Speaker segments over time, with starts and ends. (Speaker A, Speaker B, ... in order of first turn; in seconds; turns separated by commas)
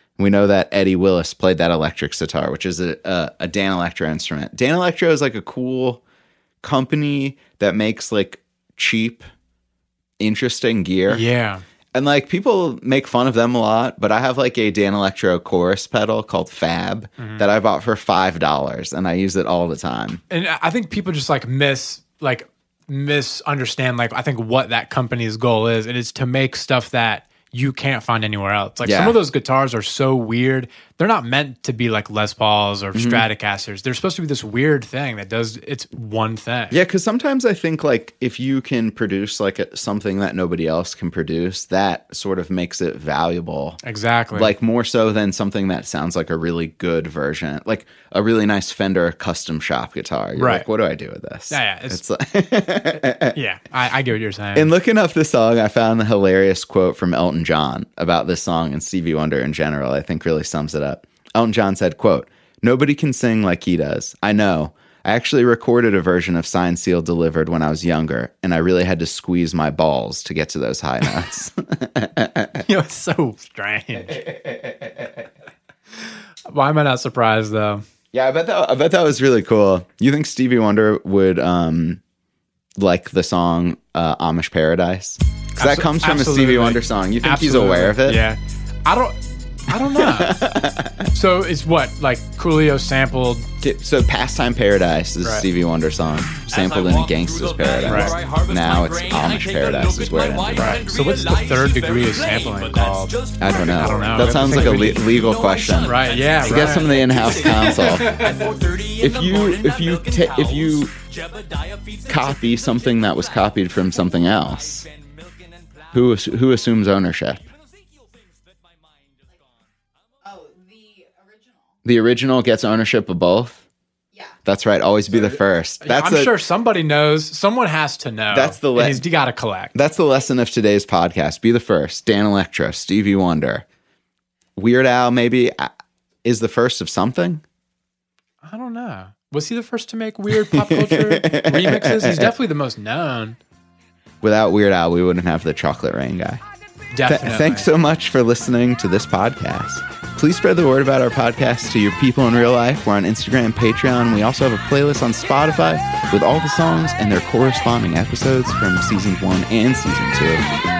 Speaker A: 0.2-6.0, Speaker A: 6.6-9.3, Speaker A: 10.2-11.2, Speaker B: 11.1-11.6, Speaker A: 11.9-20.2, Speaker B: 17.2-17.4, Speaker B: 20.3-36.8, Speaker A: 28.8-29.2, Speaker A: 32.9-33.3, Speaker A: 36.7-43.8, Speaker B: 43.8-44.5, Speaker A: 44.3-53.4, Speaker B: 50.4-50.7, Speaker B: 51.5-52.0, Speaker B: 53.1-54.7, Speaker A: 54.5-72.6, Speaker B: 72.6-74.2, Speaker A: 74.0-75.2, Speaker B: 76.5-77.8, Speaker A: 78.1-82.0, Speaker A: 82.8-88.2, Speaker B: 85.6-90.5, Speaker A: 89.8-91.1, Speaker B: 91.1-93.5, Speaker A: 93.6-100.8, Speaker B: 95.2-95.5, Speaker C: 96.5-116.1, Speaker B: 97.8-98.1, Speaker B: 100.5-105.1, Speaker A: 103.4-108.2, Speaker B: 105.8-108.4, Speaker A: 109.0-110.9, Speaker A: 112.1-114.8, Speaker A: 115.9-117.4, Speaker A: 121.8-123.6, Speaker A: 124.4-126.3, Speaker B: 125.8-129.8, Speaker A: 128.3-129.1, Speaker A: 129.8-133.6, Speaker A: 134.6-135.7, Speaker A: 136.2-137.4, Speaker B: 138.4-143.4, Speaker A: 140.3-142.3, Speaker A: 144.2-146.4, Speaker B: 146.9-147.7, Speaker A: 147.0-160.4